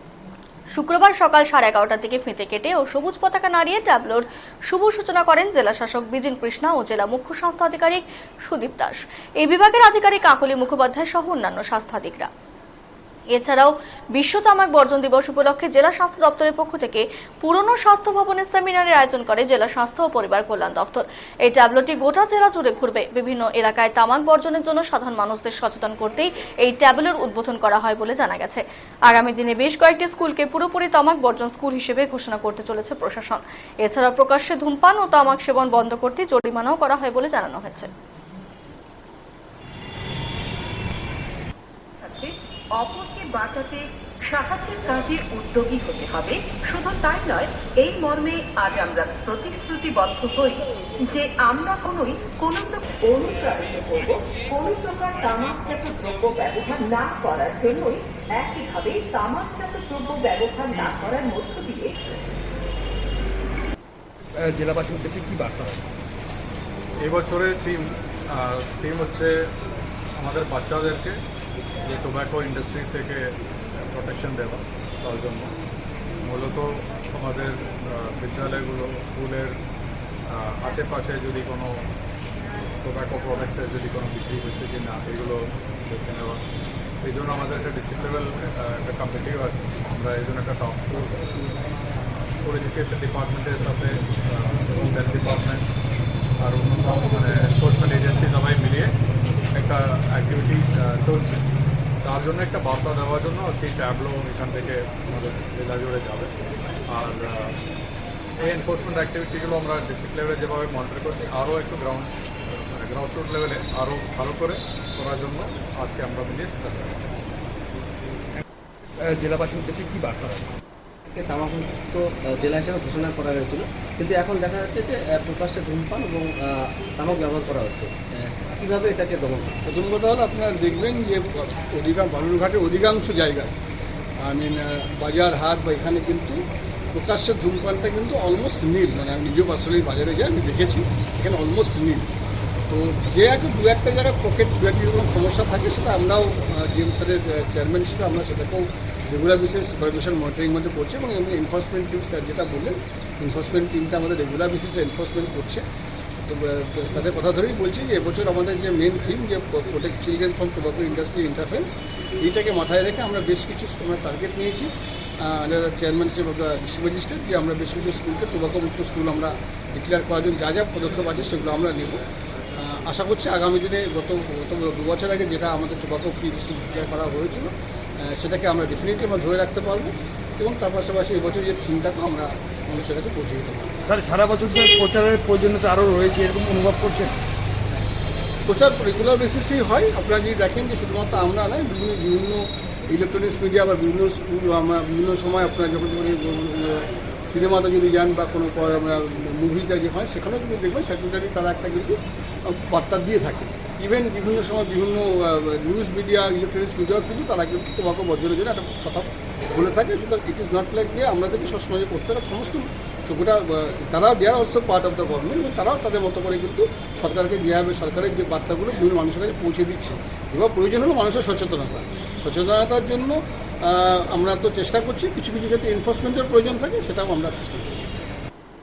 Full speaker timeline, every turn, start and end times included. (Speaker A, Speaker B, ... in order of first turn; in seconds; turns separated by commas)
Speaker A: 0.7-12.3, Speaker A: 13.3-37.9, Speaker B: 42.0-62.0, Speaker C: 64.4-65.9, Speaker D: 67.0-69.3, Speaker D: 70.2-71.2, Speaker D: 71.9-73.2, Speaker D: 73.9-75.5, Speaker D: 76.2-79.5, Speaker D: 80.3-81.7, Speaker D: 82.8-86.4, Speaker D: 87.0-91.4, Speaker D: 92.4-95.7, Speaker D: 96.4-98.9, Speaker D: 99.5-101.4, Speaker D: 102.0-106.3, Speaker D: 106.9-107.6, Speaker D: 108.4-117.3, Speaker C: 119.0-120.5, Speaker E: 121.1-129.6, Speaker F: 129.7-133.5, Speaker F: 134.2-136.4, Speaker F: 136.9-142.1, Speaker F: 142.7-155.6, Speaker F: 156.2-172.0, Speaker F: 172.6-183.8, Speaker C: 183.9-187.1, Speaker F: 188.5-227.9